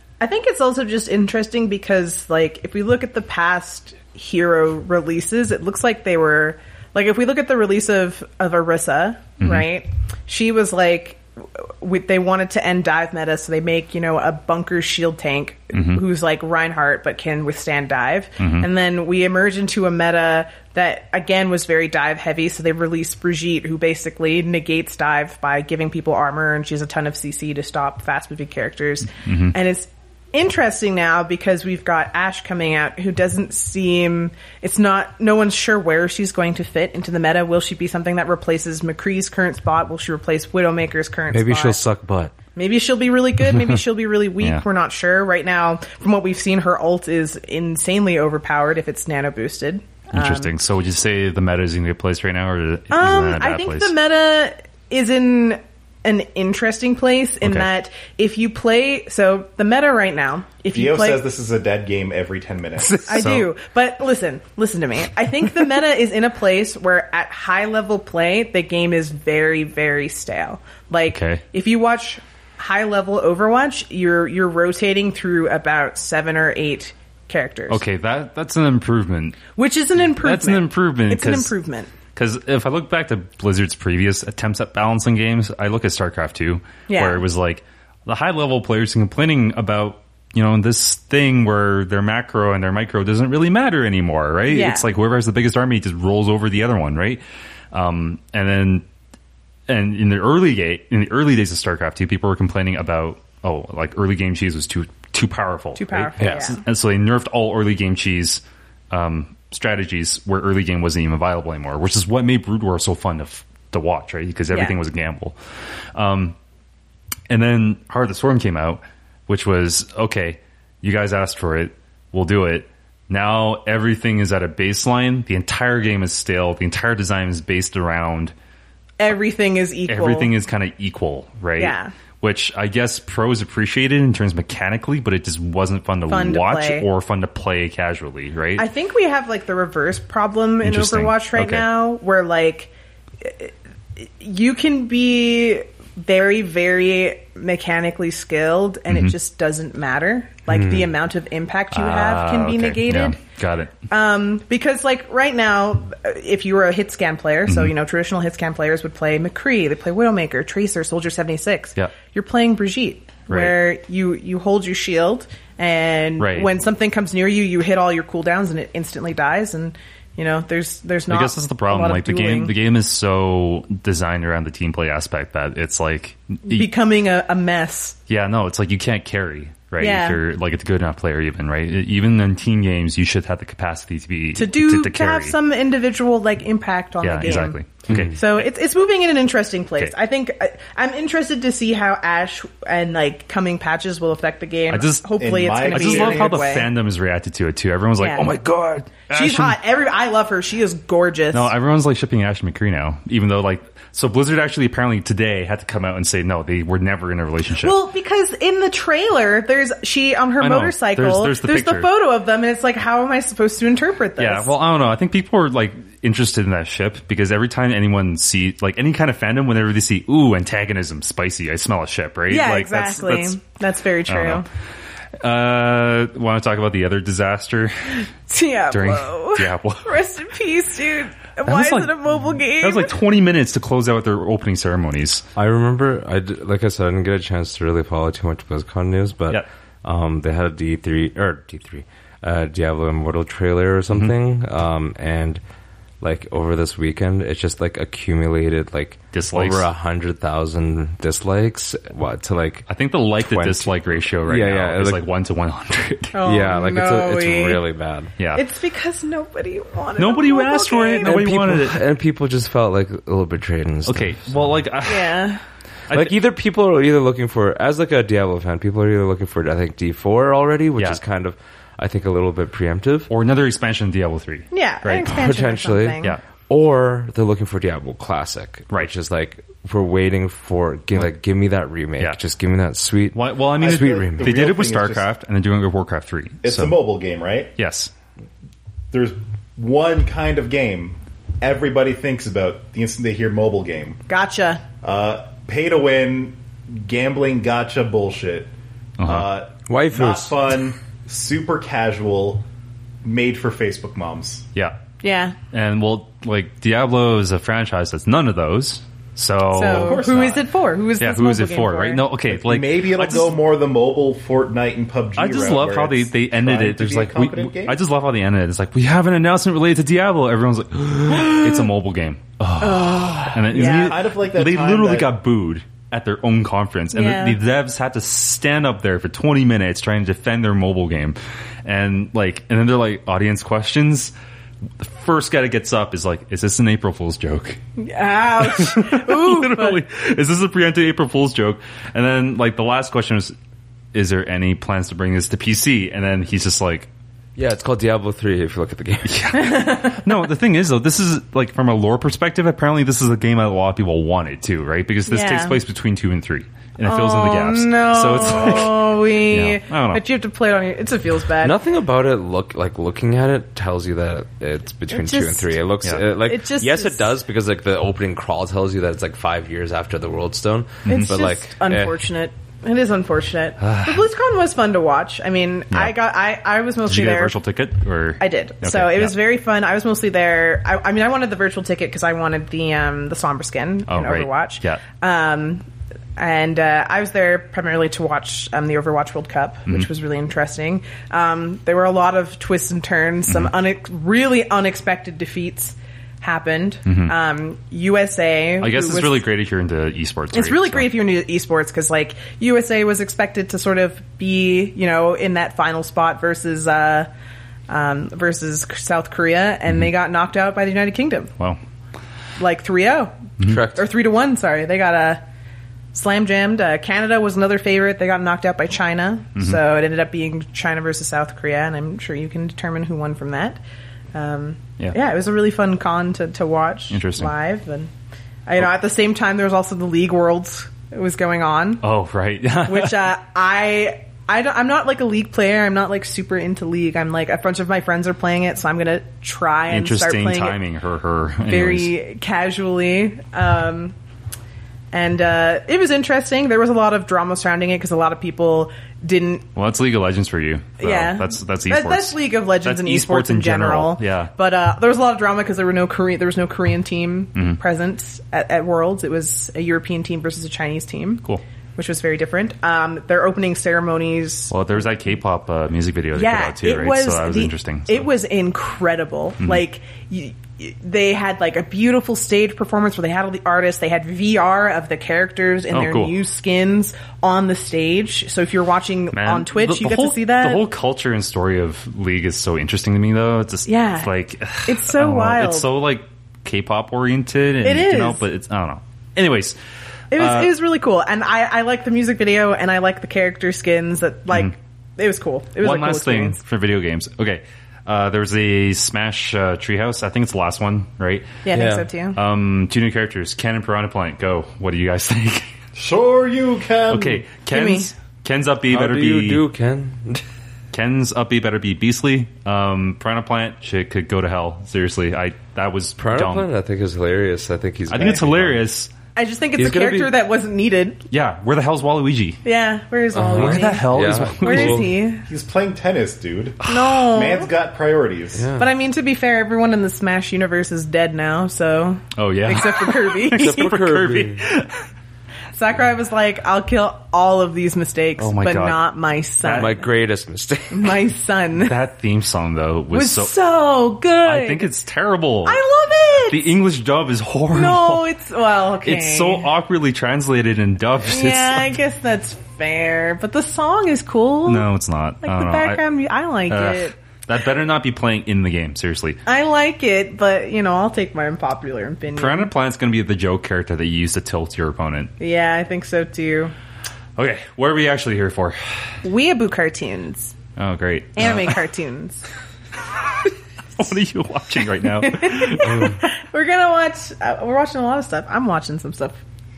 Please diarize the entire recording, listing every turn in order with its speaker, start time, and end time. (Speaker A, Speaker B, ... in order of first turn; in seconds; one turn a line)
Speaker A: 0.2-41.8
Speaker B: 9.4-9.7
Speaker B: 15.7-16.0
Speaker B: 18.4-18.7
Speaker B: 29.2-29.5
Speaker C: 41.3-42.4
Speaker A: 42.6-50.5
Speaker B: 43.5-43.8
Speaker B: 50.1-53.9
Speaker A: 52.9-61.2
Speaker B: 57.4-57.7
Speaker D: 60.7-63.3
Speaker B: 62.8-63.5
Speaker A: 63.1-77.8
Speaker B: 71.1-71.4
Speaker B: 77.7-79.5
Speaker A: 79.5-81.9
Speaker B: 80.2-81.5
Speaker B: 82.2-98.8
Speaker A: 86.9-87.2
Speaker A: 94.5-94.9
Speaker B: 99.7-115.3
Speaker A: 105.8-106.6
Speaker C: 106.2-106.5
Speaker B: 116.0-116.4
Speaker B: 117.3-128.3
Speaker A: 129.0-130.3
Speaker B: 129.9-138.7
Speaker A: 131.6-131.9
Speaker A: 136.1-136.9
Speaker A: 138.6-153.2
Speaker B: 140.6-141.7
Speaker B: 148.9-149.1
Speaker C: 150.5-150.9
Speaker B: 151.7-153.8
Speaker A: 153.9-172.6
Speaker B: 157.5-157.7
Speaker B: 163.3-163.6
Speaker B: 166.2-166.5
Speaker B: 171.1-176.7
Speaker A: 176.4-178.0
Speaker B: 178.1-185.3
Speaker A: 179.8-180.2
Speaker A: 184.3-196.7
Speaker B: 187.0-188.4
Speaker B: 194.7-195.1
Speaker D: 195.2-196.4
Speaker B: 195.7-199.6
Speaker A: 198.0-198.3
Speaker A: 199.1-201.5
Speaker B: 201.3-207.8
Speaker A: 207.6-214.5
Speaker B: 210.4-211.9
Speaker B: 214.2-223.4
Speaker A: 222.3-224.5
Speaker B: 224.1-224.4
Speaker B: 225.2-228.0
Speaker A: 228.3-232.9
Speaker B: 228.7-230.0
Speaker B: 231.4-235.2
Speaker C: 235.4-245.4
Speaker B: 243.9-244.2
Speaker C: 246.0-252.7
Speaker B: 249.1-249.7
Speaker B: 252.7-256.2
Speaker C: 253.2-255.1
Speaker A: 256.1-257.6
Speaker C: 256.2-258.1
Speaker B: 258.2-258.4
Speaker A: 258.3-261.2
Speaker B: 260.0-261.8
Speaker C: 261.0-264.6
Speaker B: 263.9-265.2
Speaker A: 264.9-265.4
Speaker B: 265.9-266.1
Speaker C: 265.9-273.1
Speaker B: 273.1-275.1
Speaker A: 274.5-276.1
Speaker C: 275.0-284.3
Speaker B: 283.1-286.8
Speaker D: 283.6-285.1
Speaker D: 286.4-287.5
Speaker B: 287.6-287.9
Speaker D: 288.9-294.0
Speaker A: 294.1-294.6
Speaker D: 294.8-298.5
Speaker B: 299.0-299.3
Speaker D: 299.0-302.4
Speaker C: 299.7-300.4
Speaker D: 303.0-304.5
Speaker A: 305.0-305.4
Speaker B: 305.5-310.1
Speaker A: 309.5-312.1
Speaker D: 309.6-310.4
Speaker B: 311.0-313.4
Speaker D: 312.3-317.8
Speaker B: 315.2-334.1
Speaker A: 322.6-324.0
Speaker D: 323.6-325.1
Speaker A: 326.9-327.4
Speaker B: 334.8-337.6
Speaker A: 337.8-339.8
Speaker B: 338.4-343.3
Speaker B: 343.9-346.9
Speaker C: 347.4-349.3
Speaker B: 349.1-360.0
Speaker A: 349.4-350.0
Speaker A: 355.1-355.6
Speaker A: 356.8-361.6
Speaker C: 361.4-372.0
Speaker A: 364.9-365.6
Speaker A: 366.2-367.1
Speaker B: 370.9-371.1
Speaker A: 370.9-377.4
Speaker B: 373.6-374.1
Speaker B: 376.9-379.2
Speaker A: 378.2-385.6
Speaker B: 383.9-384.8
Speaker A: 386.2-399.2
Speaker B: 396.9-397.1
Speaker B: 398.6-400.9
Speaker A: 400.3-407.1
Speaker A: 407.7-411.3
Speaker A: 412.4-413.2
Speaker B: 413.4-413.6
Speaker C: 413.5-413.8
Speaker A: 413.7-415.2
Speaker A: 415.9-423.6
Speaker A: 424.1-427.9
Speaker B: 426.9-427.3
Speaker A: 428.5-431.8
Speaker B: 431.8-433.1
Speaker A: 432.7-440.6
Speaker B: 439.7-441.9
Speaker A: 441.5-443.9
Speaker A: 444.9-449.4
Speaker B: 449.6-454.3
Speaker A: 450.8-461.2
Speaker A: 461.8-464.6
Speaker B: 464.5-468.1
Speaker A: 466.1-480.6
Speaker B: 475.7-476.2
Speaker B: 479.1-489.6
Speaker A: 483.7-484.1
Speaker A: 484.6-485.7
Speaker A: 487.6-488.2
Speaker A: 490.1-496.4
Speaker B: 490.1-490.5
Speaker B: 495.6-501.3
Speaker A: 501.4-502.2
Speaker C: 501.5-501.9
Speaker B: 502.2-505.5
Speaker D: 505.8-507.2
Speaker B: 506.9-509.4
Speaker A: 507.5-507.9
Speaker C: 508.7-510.2
Speaker B: 510.7-516.5
Speaker C: 516.0-518.6
Speaker B: 517.9-518.9
Speaker A: 519.1-521.0
Speaker C: 519.6-520.1
Speaker B: 521.1-522.4
Speaker A: 522.4-525.2
Speaker C: 523.1-524.9
Speaker B: 523.3-524.9
Speaker D: 525.3-528.5
Speaker B: 526.6-527.0
Speaker A: 526.7-527.5
Speaker C: 528.4-528.7
Speaker A: 528.6-533.7
Speaker B: 532.2-534.8
Speaker C: 533.4-534.4
Speaker A: 535.5-539.9
Speaker B: 538.2-538.8
Speaker B: 539.4-539.8
Speaker C: 539.5-541.0
Speaker A: 540.7-541.8
Speaker B: 541.5-543.3
Speaker A: 542.9-544.7
Speaker B: 544.2-545.6
Speaker A: 545.5-546.5
Speaker B: 546.3-548.1
Speaker A: 547.5-549.5
Speaker B: 548.8-551.8
Speaker A: 551.1-554.7
Speaker B: 554.5-555.8
Speaker A: 555.2-556.9
Speaker B: 556.5-559.2
Speaker A: 559.3-562.5
Speaker B: 562.1-565.1
Speaker A: 565.2-566.5
Speaker B: 567.2-568.6
Speaker A: 569.0-570.4
Speaker B: 570.6-571.6
Speaker A: 571.1-572.2
Speaker B: 573.2-576.0
Speaker A: 575.0-579.2
Speaker C: 575.7-576.0